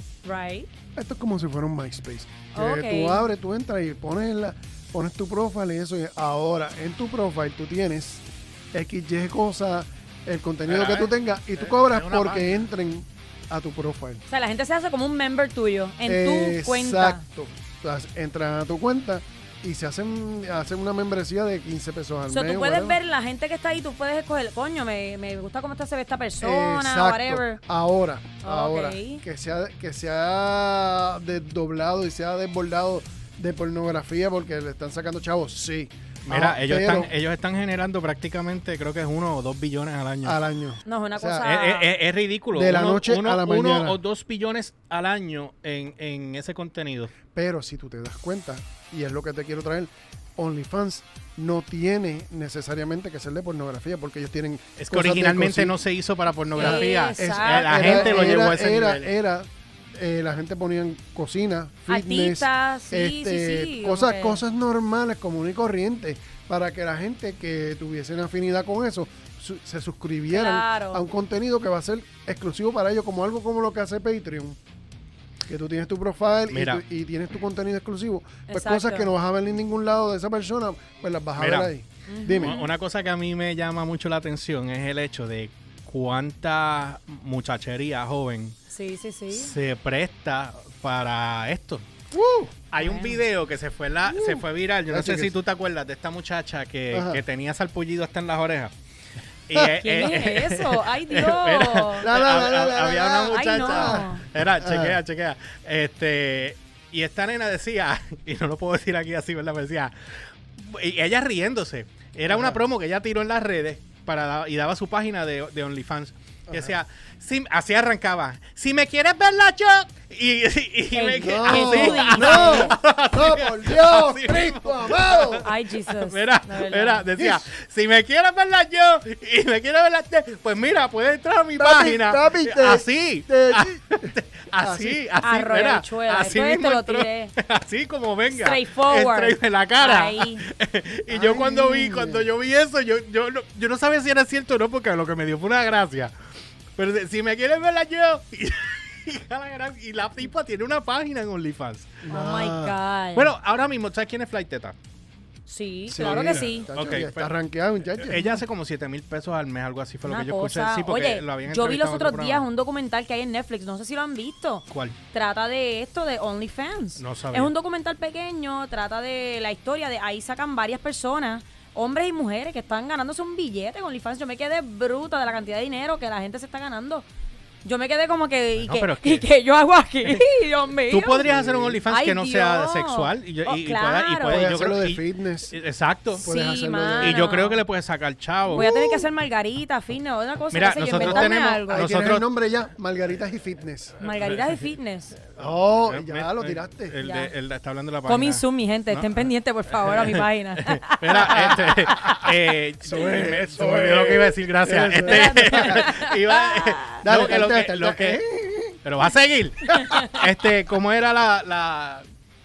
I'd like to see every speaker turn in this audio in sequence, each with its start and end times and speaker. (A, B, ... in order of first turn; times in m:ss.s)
0:00.2-0:00.7 A
0:00.9-0:14.2 B
0:02.5-0:03.2 A
0:10.7-0:12.5 C
0:14.3-0:17.2 A
0:16.0-0:23.0 B
0:22.3-0:27.6 A
0:26.4-0:37.1 B
0:28.4-0:29.2 A
0:36.2-0:40.4 C
0:40.2-0:41.5 B
0:40.8-0:41.9 A
0:41.4-0:47.1 C
0:42.5-0:44.0 B
0:47.3-0:55.8 B
0:54.8-0:59.1 C
0:56.5-0:58.3 A
0:56.6-1:14.6 B
1:01.9-1:04.4 A
1:10.3-1:11.0 A
1:15.5-1:22.6 B
1:16.5-1:16.8 C
1:18.5-1:19.1 A
1:21.4-1:21.7 C
1:22.1-1:22.7 A
1:22.3-1:28.6 C
1:28.7-1:29.5 A
1:29.3-1:31.9 C
1:32.1-1:32.5 B
1:32.7-1:38.7 C
1:32.8-1:33.2 A
1:34.1-1:35.3 B
1:36.9-1:37.2 B
1:39.5-1:49.9 C
1:39.8-1:42.1 A
1:42.0-1:45.0 B
1:43.3-1:44.2 A
1:50.6-2:26.1 C
1:52.3-1:52.6 B
1:56.5-1:56.7 B
2:00.9-2:02.8 A
2:01.2-2:05.4 B
2:05.4-2:07.0 A
2:07.2-2:07.4 B
2:11.6-2:15.0 B
2:15.2-2:17.3 A
2:18.3-2:20.4 A
2:21.1-2:22.3 B
2:26.8-2:32.0 C
2:32.0-2:32.8 B
2:32.1-2:33.3 A
2:33.1-2:34.8 C
2:35.5-2:36.7 A
2:35.9-2:38.2 B
2:36.0-2:37.3 C
2:38.0-2:42.4 C
2:38.1-2:38.4 A
2:40.0-2:57.0 A
2:44.7-2:45.0 C
2:47.0-2:47.5 C
2:57.6-3:01.3 A
2:58.6-2:59.2 C
3:00.9-3:06.2 C
3:01.2-3:01.8 B
3:01.8-3:04.5 A
3:04.3-3:05.5 B
3:06.2-3:07.3 B
3:06.2-3:07.6 A
3:07.0-3:08.9 C
3:08.5-3:11.9 A
3:10.5-3:12.2 C
3:11.0-3:14.0 B
3:14.0-3:15.2 A
3:14.1-3:14.5 C
3:15.4-3:17.0 B
3:15.8-3:19.3 C
3:17.0-3:17.3 A
3:18.0-3:22.2 A
3:19.8-3:28.2 C
3:21.3-3:22.2 B
3:22.8-3:25.9 B
3:25.0-3:27.0 A
3:27.0-3:28.8 B
3:28.8-3:32.0 C
3:29.7-3:30.0 B
3:29.8-3:30.1 A